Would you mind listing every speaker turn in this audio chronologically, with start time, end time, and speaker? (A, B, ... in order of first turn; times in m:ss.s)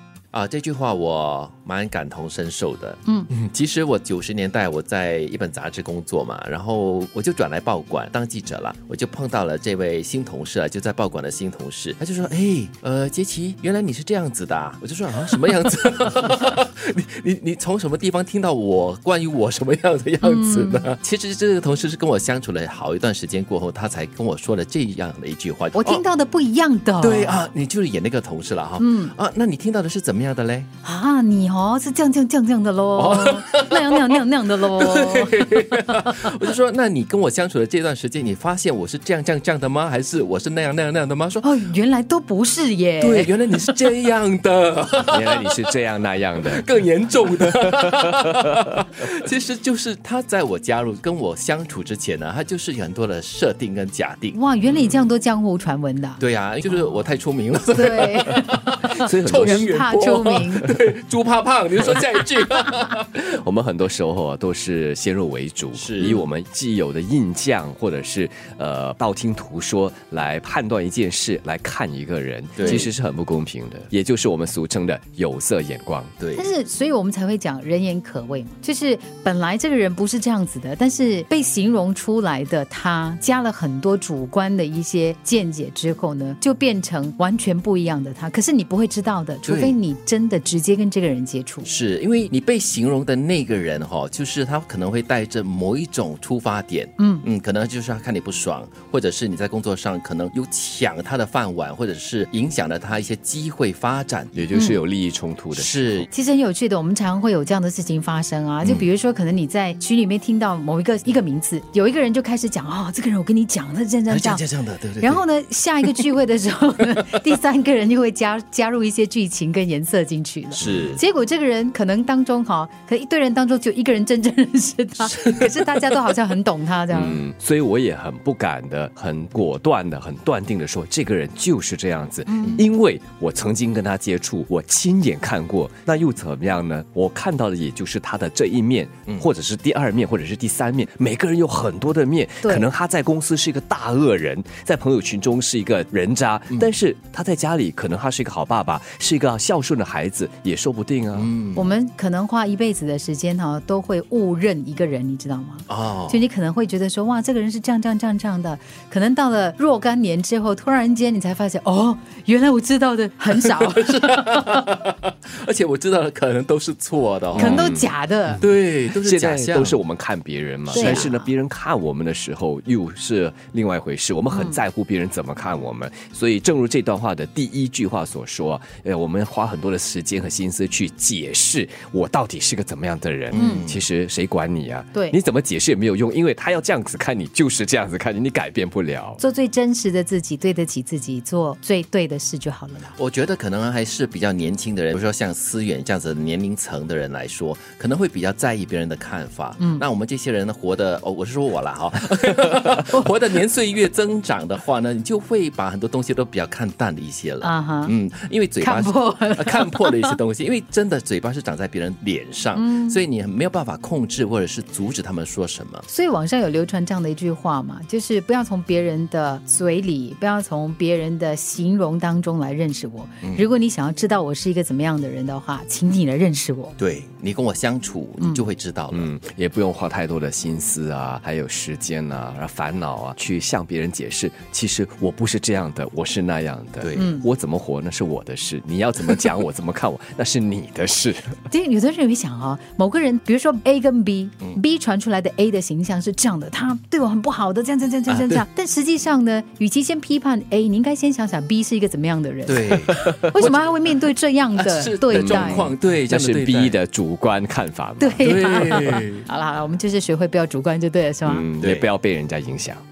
0:00.3-0:26.0 A
0:20.2-0:20.8 B
0:25.7-0:27.5 B
0:27.0-0:30.7 A
0:28.8-0:29.1 B
0:30.8-0:36.3 B
0:32.9-0:41.4 A
0:41.4-0:43.3 B
0:43.0-0:45.7 A
0:45.1-0:46.6 C
0:46.4-0:54.4 A
0:47.9-0:48.6 C
0:54.3-0:56.2 B
0:56.2-1:03.0 A
0:57.7-1:00.7 B
0:59.0-0:59.7 C
1:03.2-1:16.1 C
1:05.7-1:06.2 A
1:12.6-1:12.9 A
1:16.2-1:16.4 A
1:16.3-1:31.7 B
1:29.4-1:29.8 A
1:31.6-1:44.3 A
1:37.0-1:37.2 B
1:44.3-1:46.1 C
1:44.5-1:44.8 B
1:45.5-1:46.0 A
1:46.1-1:54.4 B
1:48.6-1:48.9 A
1:54.1-1:55.2 A
1:55.0-2:07.2 B
2:00.6-2:01.0 A
2:00.6-2:01.0 C
2:06.9-2:31.3 C
2:12.3-2:12.6 B
2:31.2-2:31.7 A
2:31.6-2:44.4 B
2:35.7-2:36.2 A
2:43.3-2:47.7 A
2:47.3-2:47.9 C
2:47.4-2:48.4 B
2:48.4-2:49.8 A
2:49.0-3:09.2 C
2:50.7-2:51.3 B
2:50.7-2:51.0 A
2:54.3-2:54.6 B
3:03.3-3:03.8 A
3:03.3-3:03.6 B
3:09.2-3:13.0 B
3:13.0-3:35.9 A
3:19.6-3:19.8 B
3:27.4-3:27.9 B
3:28.6-3:30.2 B
3:32.5-3:33.0 B
3:35.9-3:46.8 B
3:46.8-3:49.1 A
3:48.9-4:01.4 C
3:56.8-3:57.2 A
3:57.0-3:57.2 B
4:01.5-4:15.7 B
4:08.1-4:08.5 A
4:12.5-4:14.0 A
4:12.9-4:13.3 C
4:14.5-4:16.8 A
4:15.1-4:19.0 C
4:18.0-4:21.4 B
4:18.2-4:19.2 A
4:21.2-4:22.8 C
4:21.6-4:21.9 A